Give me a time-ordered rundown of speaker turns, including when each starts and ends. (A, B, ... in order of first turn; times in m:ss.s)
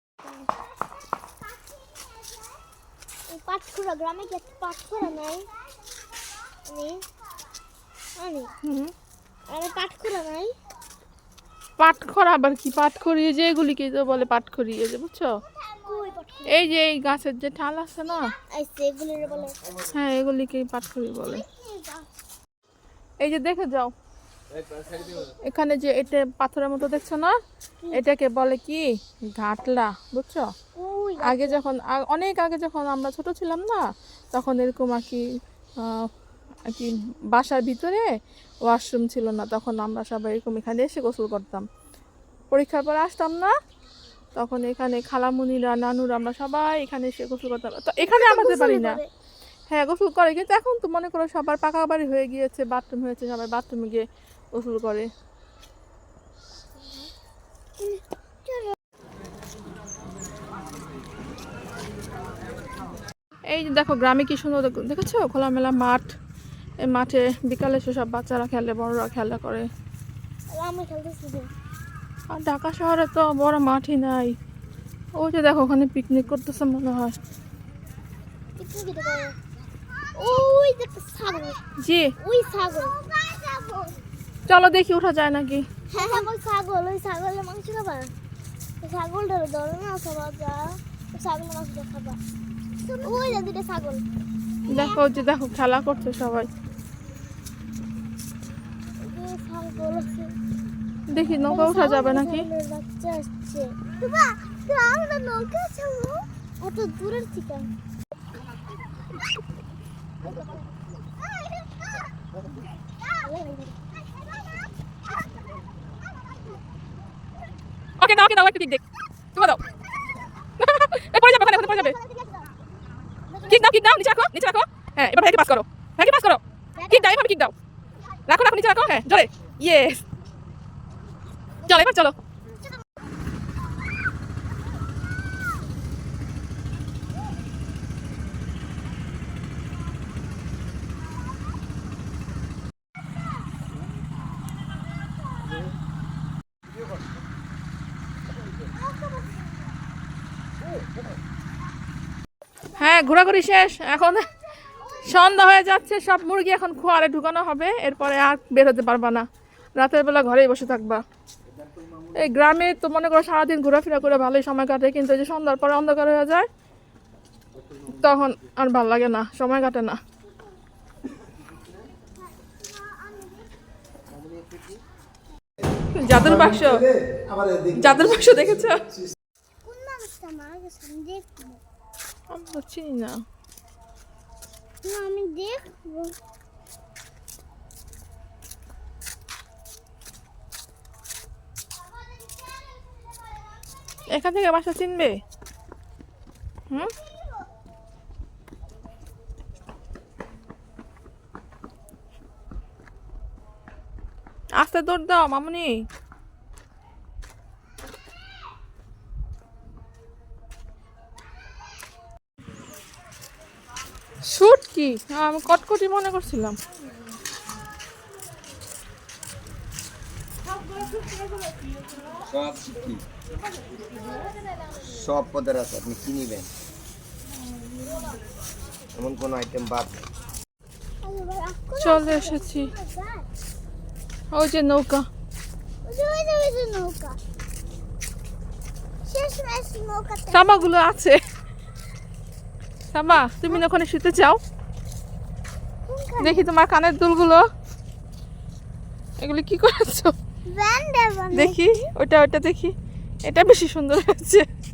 0:03.3-0:05.5 A
0:06.7-0:07.0 A
0:08.2-0:08.5 A
0:08.6-0:08.9 B
0:09.5-0:10.6 A
0:11.8-0:15.3 B
0:15.7-0:16.6 A
0:16.5-0:18.3 B
0:18.5-0:19.6 A
0:19.9-0:21.4 B
0:21.3-0:22.1 A
0:23.2-0:23.9 B
0:25.4-0:27.3 B
0:27.9-0:30.5 B
0:30.8-0:31.6 A
0:31.2-0:35.2 B
0:35.8-0:36.1 B
0:36.7-0:38.0 B
0:38.6-0:41.7 B
0:42.5-0:43.5 B
0:44.4-0:49.0 B
0:48.0-0:49.1 A
0:49.7-0:55.1 B
0:57.8-0:58.8 A
1:03.5-1:06.1 B
1:06.8-1:09.7 B
1:10.5-1:11.5 A
1:12.3-1:14.3 B
1:15.2-1:17.2 B
1:18.6-1:19.4 A
1:20.2-1:21.6 A
1:21.8-1:22.1 B
1:22.2-1:24.0 A
1:24.5-1:26.2 B
1:25.9-1:28.1 A
1:28.8-1:32.2 A
1:32.8-1:34.0 A
1:34.7-1:35.1 A
1:34.7-1:36.5 B
1:39.0-1:40.3 A
1:41.1-1:42.5 B
1:41.4-1:47.7 A
1:51.2-1:51.7 A
1:53.1-1:53.8 A
1:58.0-1:58.8 B
1:59.4-1:59.6 B
2:00.6-2:02.0 B
2:01.4-2:02.5 A
2:03.3-2:03.8 A
2:03.5-2:07.5 B
2:06.8-2:07.2 A
2:08.3-2:10.0 B
2:11.7-2:12.1 B
2:28.7-2:29.6 A
2:32.8-2:34.2 B
2:35.0-2:39.3 B
2:39.8-2:41.0 B
2:42.2-2:46.5 B
2:47.9-2:50.0 B
2:55.9-2:56.9 B
2:57.7-2:58.8 B
2:59.6-3:01.6 A
3:02.3-3:03.2 B
3:04.8-3:06.2 A
3:14.1-3:15.2 B
3:17.0-3:17.3 A
3:24.6-3:25.8 B
3:34.3-3:36.6 B
3:42.3-3:43.0 C
3:44.9-3:46.5 C
3:49.0-3:50.1 C
3:51.0-3:53.3 A
3:51.8-3:52.7 B
3:54.3-3:55.1 B
3:55.8-3:57.2 A
3:59.0-4:00.6 A
4:00.3-4:01.2 B
4:02.9-4:04.4 B
4:05.9-4:06.5 A
4:06.2-4:07.4 B
4:09.2-4:10.1 B
4:10.5-4:11.6 A
4:11.4-4:12.7 B
4:13.3-4:14.5 B